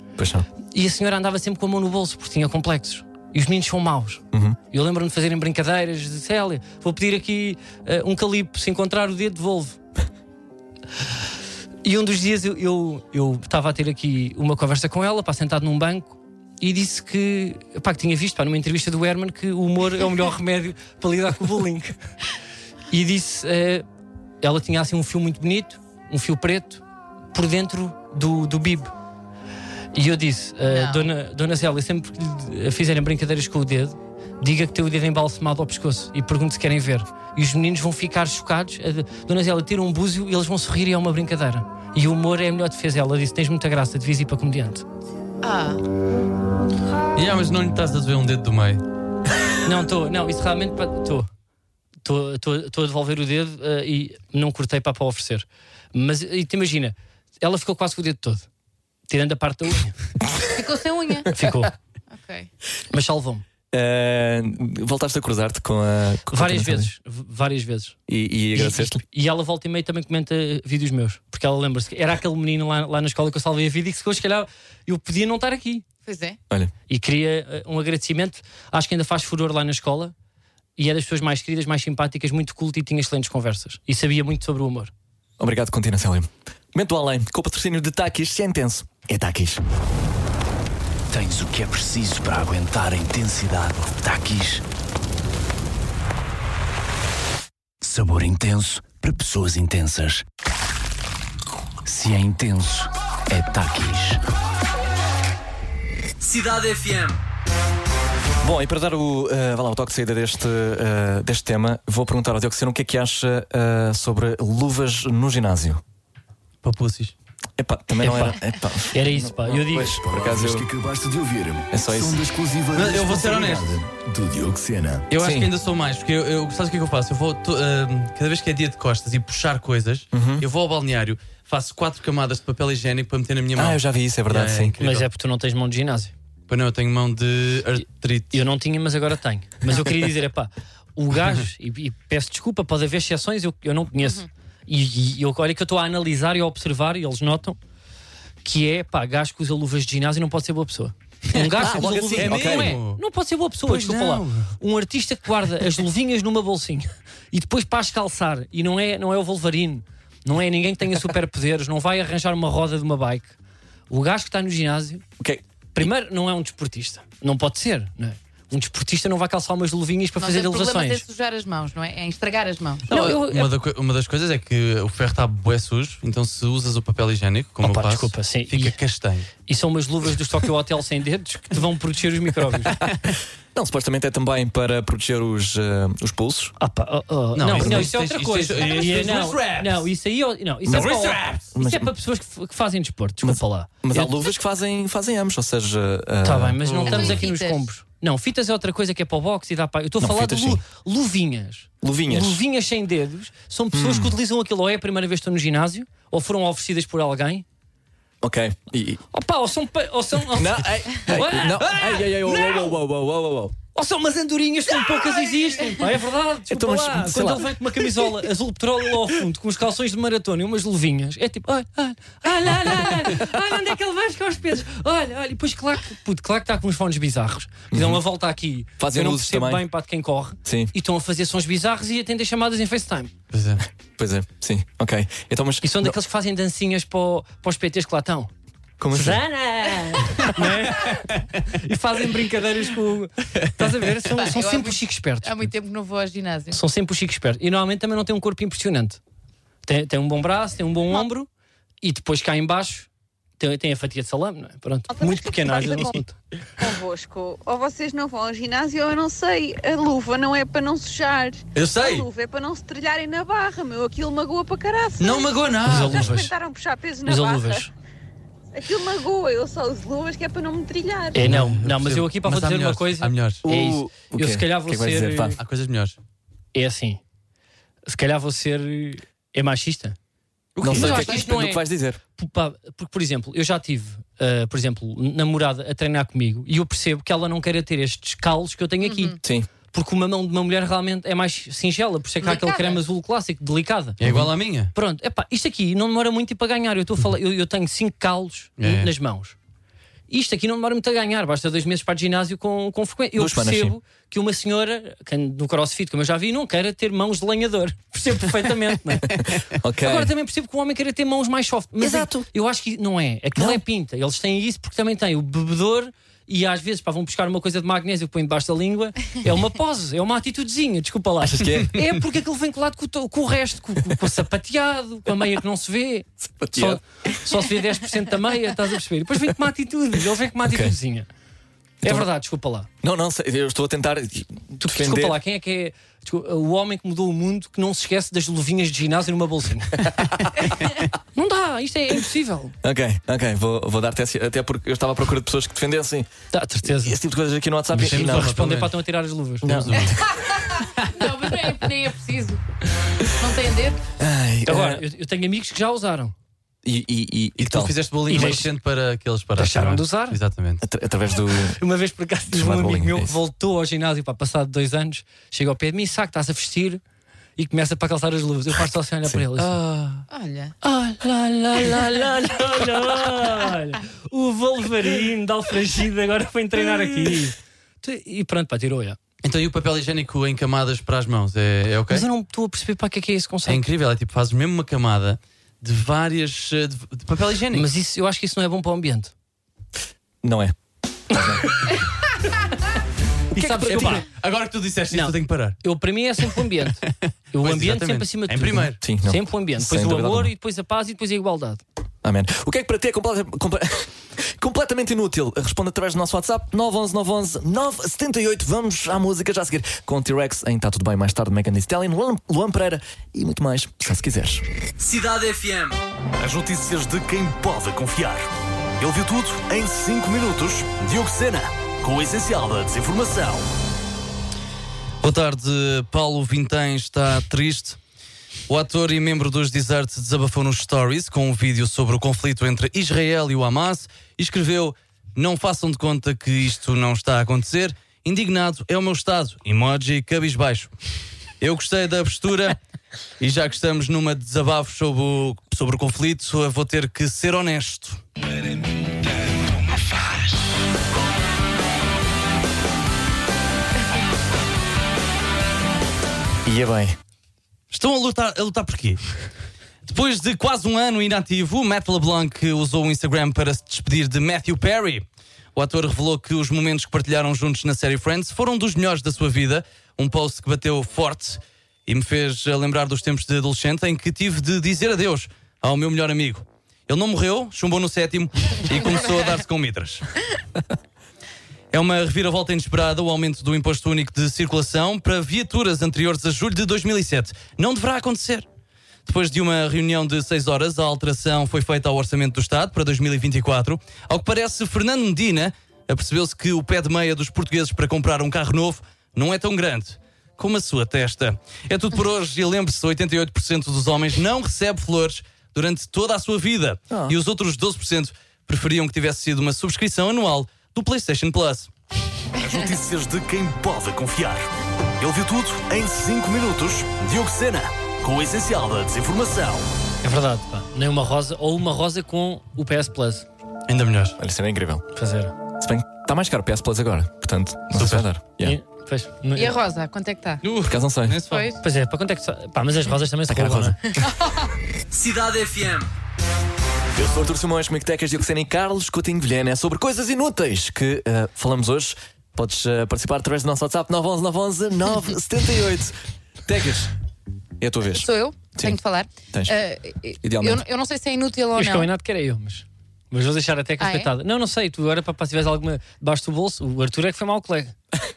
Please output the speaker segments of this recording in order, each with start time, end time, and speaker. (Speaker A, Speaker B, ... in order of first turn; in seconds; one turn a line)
Speaker A: 0.2-0.5
Speaker B: 0.7-9.8
Speaker A: 4.3-4.6
Speaker B: 11.8-21.9
Speaker B: 22.9-23.8
Speaker B: 24.4-26.8
Speaker B: 27.3-28.9
Speaker B: 29.9-44.8
Speaker C: 30.7-31.1
Speaker C: 45.4-45.8
Speaker D: 47.1-48.8
Speaker B: 49.6-51.3
Speaker B: 52.0-58.5
Speaker B: 59.1-59.9
Speaker C: 60.4-61.3
Speaker B: 61.3-61.7
Speaker C: 62.1-62.5
Speaker B: 62.9-63.4
Speaker A: 63.7-66.9
Speaker B: 66.3-68.0
Speaker A: 68.1-69.0
Speaker B: 68.5-75.8
Speaker C: 76.0-76.4
Speaker B: 76.9-80.1
Speaker B: 80.8-84.9
Speaker A: 85.4-89.6
Speaker E: 91.1-94.6
Speaker E: 97.8-100.2
Speaker E: 101.8-104.2
Speaker E: 106.2-107.2
Speaker A: 108.4-115.8
Speaker D: 116.6-117.1
Speaker A: 117.6-120.7
Speaker B: 118.0-120.0
Speaker E: 119.9-125.1
Speaker A: 121.7-122.2
Speaker D: 122.7-123.8
Speaker D: 125.1-135.1
Speaker A: 125.1-125.5
Speaker A: 130.1-130.4
Speaker A: 133.5-134.7
Speaker B: 134.8-136.1
Speaker D: 136.5-138.4
Speaker B: 138.3-147.6
Speaker B: 148.4-163.3
Speaker D: 151.4-153.0
Speaker A: 151.5-152.8
Speaker D: 153.7-154.5
Speaker B: 163.9-165.0
Speaker A: 165.2-165.9
Speaker B: 165.7-171.0
Speaker C: 170.2-172.9
Speaker B: 172.9-173.5
Speaker D: 172.9-179.3
Speaker B: 177.6-178.8
Speaker B: 179.4-182.8
Speaker A: 182.9-186.5
Speaker B: 186.6-194.1
Speaker D: 187.3-189.9
Speaker A: 187.5-187.9
Speaker A: 190.7-190.9
Speaker D: 190.7-191.4
Speaker A: 191.5-191.9
Speaker A: 193.2-196.6
Speaker B: 196.2-207.4
Speaker D: 196.7-197.2
Speaker C: 196.8-197.7
Speaker A: 200.0-200.6
Speaker A: 201.8-202.4
Speaker A: 203.7-204.2
Speaker A: 208.2-209.0
Speaker B: 209.1-212.7
Speaker A: 210.3-213.6
Speaker B: 213.7-233.1
Speaker A: 216.5-218.1
Speaker A: 227.7-228.0
Speaker A: 228.8-229.7
Speaker A: 230.4-230.7
Speaker D: 233.3-233.6
Speaker A: 234.0-235.9
Speaker B: 235.6-238.3
Speaker A: 238.8-239.2
Speaker B: 238.9-245.5
Speaker D: 240.4-241.2
Speaker C: 244.1-246.6
Speaker B: 246.5-249.0
Speaker B: 249.7-251.3
Speaker B: 251.8-256.2
Speaker C: 254.9-256.0
Speaker F: 256.6-267.7
Speaker D: 261.5-262.1
Speaker D: 265.0-266.2
Speaker B: 265.6-266.3
Speaker B: 267.0-267.7
Speaker F: 268.5-271.3
Speaker B: 271.1-275.4
Speaker D: 271.2-273.4
Speaker A: 273.4-275.4
Speaker D: 275.4-276.0
Speaker B: 276.5-277.0
Speaker B: 277.9-280.0
Speaker D: 280.6-281.1
Speaker A: 280.6-282.0
Speaker B: 280.6-289.2
Speaker C: 280.9-281.2
Speaker C: 288.8-289.2
Speaker A: 289.2-289.5
Speaker B: 289.7-294.0
Speaker C: 292.2-292.8
Speaker D: 294.0-294.7
Speaker A: 294.0-294.3
Speaker B: 294.7-299.3
Speaker D: 298.6-298.9
Speaker B: 300.1-309.2
Speaker A: 303.1-303.8
Speaker A: 309.1-310.1
Speaker B: 309.8-331.1
Speaker A: 311.8-312.3
Speaker A: 313.4-313.6
Speaker A: 321.2-321.8
Speaker A: 326.4-326.8
Speaker A: 330.4-330.7
Speaker A: 331.8-332.1
Speaker B: 331.8-332.7
Speaker A: 332.8-335.2
Speaker B: 334.6-340.0
Speaker B: 341.1-342.5
Speaker A: 342.6-346.1
Speaker B: 346.3-346.9
Speaker A: 346.6-348.4
Speaker D: 347.7-348.8
Speaker B: 347.7-349.6
Speaker A: 349.4-350.0
Speaker D: 349.4-350.0
Speaker C: 349.8-352.4
Speaker C: 353.0-353.8
Speaker A: 354.0-354.8
Speaker B: 354.4-356.1
Speaker A: 356.6-358.4
Speaker D: 357.4-360.6
Speaker B: 358.1-358.5
Speaker B: 359.4-360.2
Speaker A: 360.6-361.6
Speaker B: 361.4-366.8
Speaker A: 362.3-363.1
Speaker B: 367.4-370.0
Speaker D: 369.4-369.7
Speaker C: 370.1-370.5
Speaker B: 370.6-379.0
Speaker D: 379.2-382.1
Speaker B: 381.9-383.6
Speaker D: 383.4-387.6
Speaker B: 387.5-389.1
Speaker A: 390.2-390.5
Speaker A: 391.1-391.5
Speaker B: 393.3-394.1
Speaker A: 393.4-394.0
Speaker D: 393.4-395.6
Speaker B: 394.9-401.6
Speaker D: 397.4-398.8
Speaker A: 398.8-400.3
Speaker A: 402.0-414.4
Speaker E: 414.8-423.5
Speaker D: 425.0-427.8
Speaker D: 428.5-440.7
Speaker D: 441.4-442.6
Speaker D: 443.2-448.0
Speaker A: 456.4-457.0
Speaker D: 457.7-459.0
Speaker D: 459.8-480.1
Speaker D: 481.7-488.4
Speaker D: 489.1-511.7
Speaker A: 506.9-507.2
Speaker E: 512.4-519.7
Speaker B: 520.0-523.3
Speaker D: 523.7-524.1
Speaker A: 524.2-524.8
Speaker B: 524.9-525.3
Speaker A: 525.6-528.6
Speaker D: 527.7-528.1
Speaker B: 528.4-529.6
Speaker C: 529.4-530.4
Speaker D: 530.4-531.5
Speaker A: 530.7-531.2
Speaker C: 531.3-531.6
Speaker B: 531.6-533.8
Speaker A: 533.3-534.0
Speaker C: 534.0-534.5
Speaker A: 536.9-546.9
Speaker A: 547.6-548.8
Speaker C: 547.9-551.9
Speaker A: 549.3-549.6
Speaker A: 550.2-550.6
Speaker B: 551.5-557.7
Speaker C: 553.8-554.1